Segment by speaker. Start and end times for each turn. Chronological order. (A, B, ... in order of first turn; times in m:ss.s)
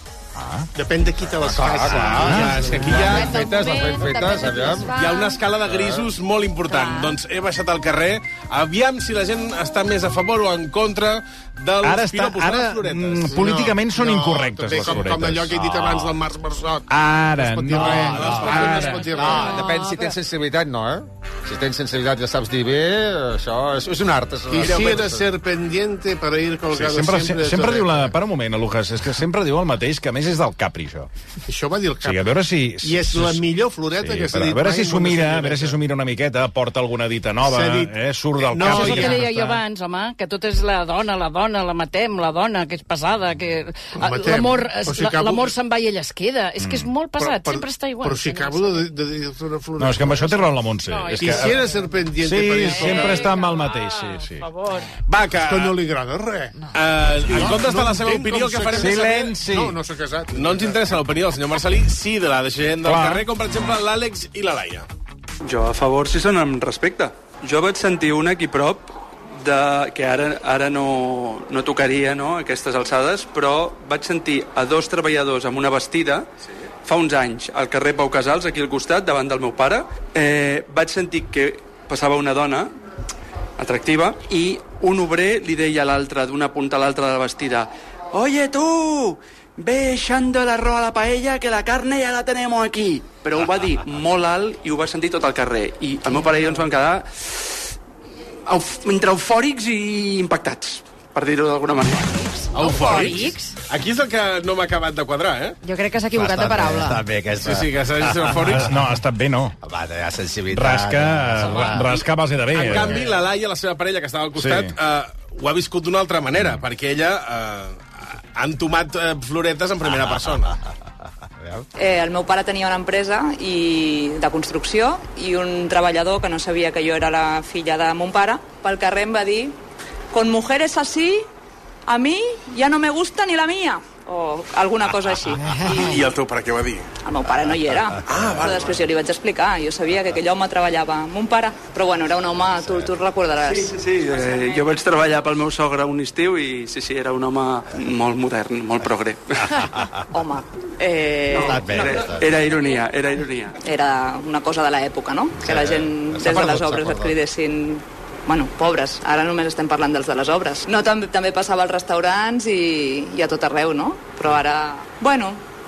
0:00.4-0:00.7 A
0:00.8-0:03.3 B
0:01.5-0:04.9 C
0:01.9-0:02.8 A
0:01.9-0:03.4 D
0:03.0-0:05.5 E
0:05.0-0:13.4 D
0:06.7-0:07.2 E
0:11.8-0:15.5 A
0:13.3-0:19.6 B
0:14.7-0:16.2 D
0:16.9-0:19.2 A
0:17.8-0:19.0 D
0:18.7-0:20.2 E
0:19.2-0:25.3 C
0:24.5-0:28.1 B
0:24.5-0:25.1 D
0:26.7-0:31.1 A
0:31.5-0:35.8 B
0:32.0-0:39.6 A
0:37.4-0:39.3 B
0:38.6-0:48.9 F
0:44.0-0:45.6 B
0:46.6-0:46.9 A
0:47.2-0:50.6 B
0:49.8-0:51.6 A
0:50.9-0:51.9 F
0:51.1-0:53.4 B
0:52.2-0:54.5 A
0:52.7-0:55.0 F
0:55.1-0:55.8 D
0:55.3-1:00.8 B
0:56.7-0:59.3 D
0:58.8-0:59.8 A
1:00.3-1:04.9 D
1:02.8-1:03.3 A
1:05.4-1:16.3 G
1:16.8-1:22.7 G
1:23.6-1:37.7 G
1:38.5-1:42.3 G
1:42.2-1:43.5 E
1:42.5-1:45.6 D
1:45.6-1:47.0 E
1:46.1-1:48.6 C
1:47.4-1:48.8 D
1:48.5-1:49.6 A
1:49.6-1:51.9 C
1:50.5-1:53.1 A
1:51.6-2:00.5 D
1:54.4-1:54.8 A
2:00.1-2:00.5 C
2:01.8-2:09.6 H
2:10.1-2:11.3 H
2:11.9-2:16.0 H
2:15.6-2:16.9 D
2:17.0-2:23.8 H
2:18.1-2:18.6 D
2:23.4-2:29.5 G
2:29.5-2:29.9 C
2:30.1-2:32.1 H
2:31.4-2:32.4 C
2:31.6-2:33.6 G
2:33.6-2:45.4 H
2:35.4-2:37.2 C